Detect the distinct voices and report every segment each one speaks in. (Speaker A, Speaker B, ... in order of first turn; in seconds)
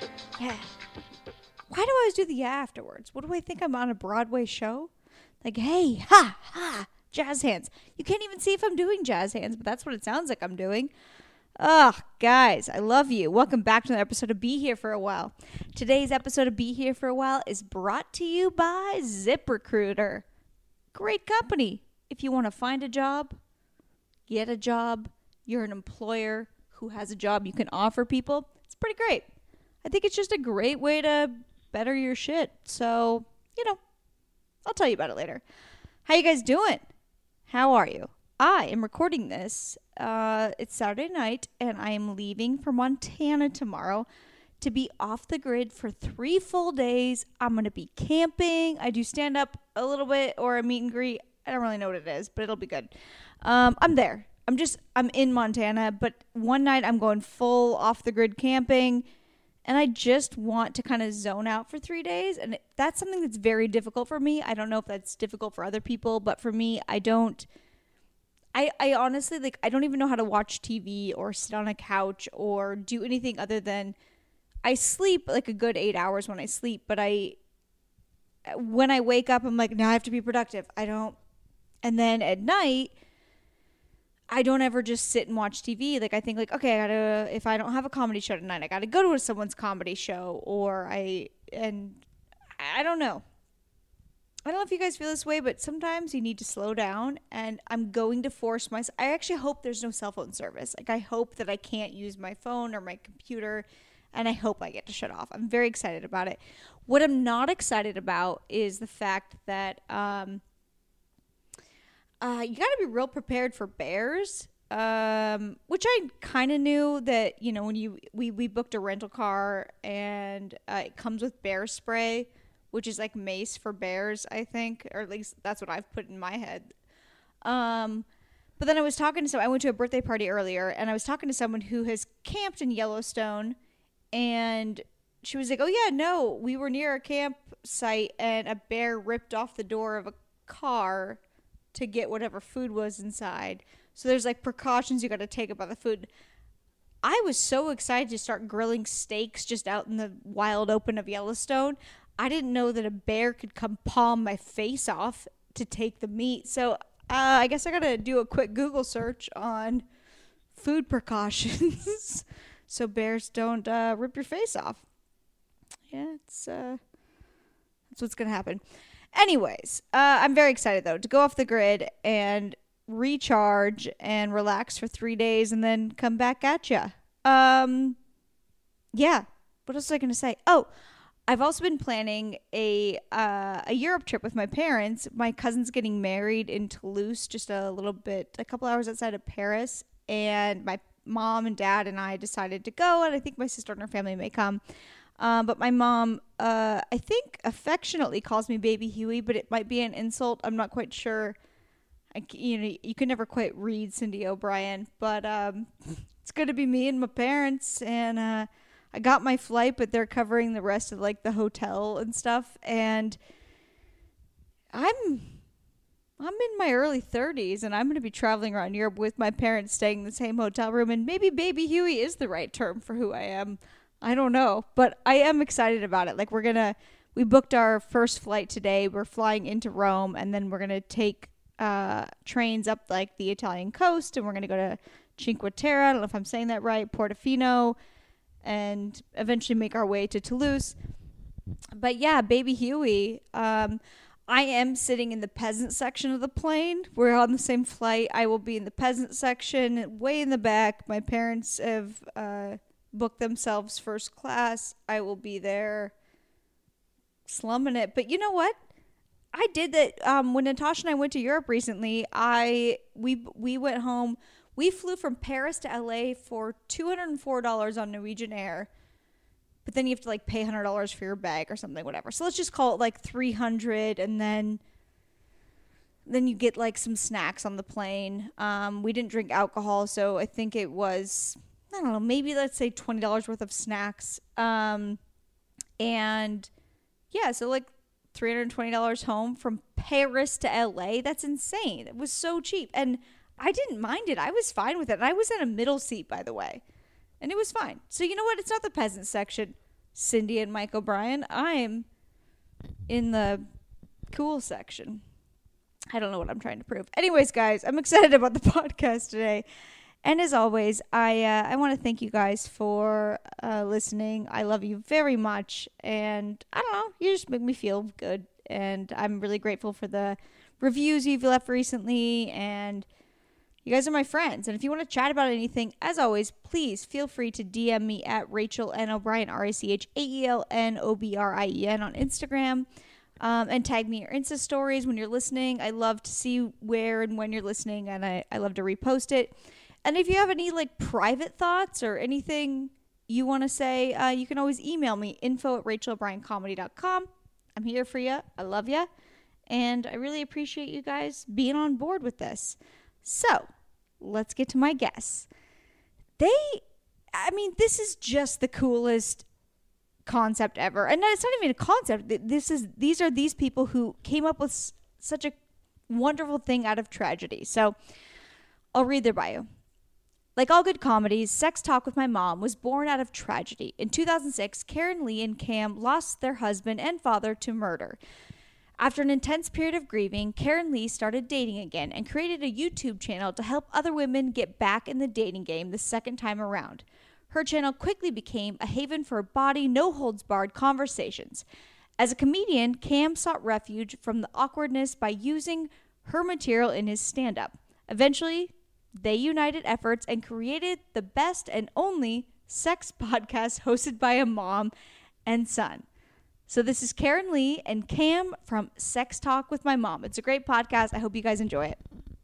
Speaker A: 0.4-0.7, 1.7-4.9, 5.4-10.9, 11.6-20.2, 20.9-23.4, 24.3-29.3, 29.8-33.8, 34.6-35.4, 36.1-36.8, 37.5-44.1, 44.6-52.9, 53.4-59.0, 59.7-67.5, 68.5-74.0, 74.6-77.4, 78.5-81.2, 81.8-82.9, 84.3-92.0, 92.6-93.2, 94.5-110.4, 112.2-126.7, 127.4-128.1, 128.6-133.6, 134.1-141.2, 141.7-146.1, 147.0-159.8, 160.6-164.8, 165.9-166.8, 167.9-168.6, 169.1-178.0, 178.9-180.7, 181.3-194.6, 195.2-201.4, 202.1-213.2, 214.7-215.3, 216.2-237.8, 238.4-240.8, 241.8-255.9, 257.3-258.6, 259.3-268.7, 269.6-274.6, 276.1-285.0, 285.8-286.5, 287.1-296.6, 297.2-301.9, 302.9-303.4, 304.1-305.0, 305.9-309.4, 310.0-322.9, 323.6-332.7, 333.2-339.3, 339.9-348.9, 349.5-353.5, 354.0-355.3, 356.2-356.6, 357.1-359.2, 360.1-365.4, 365.9-367.8, 368.8-369.5, 370.4-378.0, 378.8-391.4, 392.0-404.7, 405.3-405.9, 406.5-411.8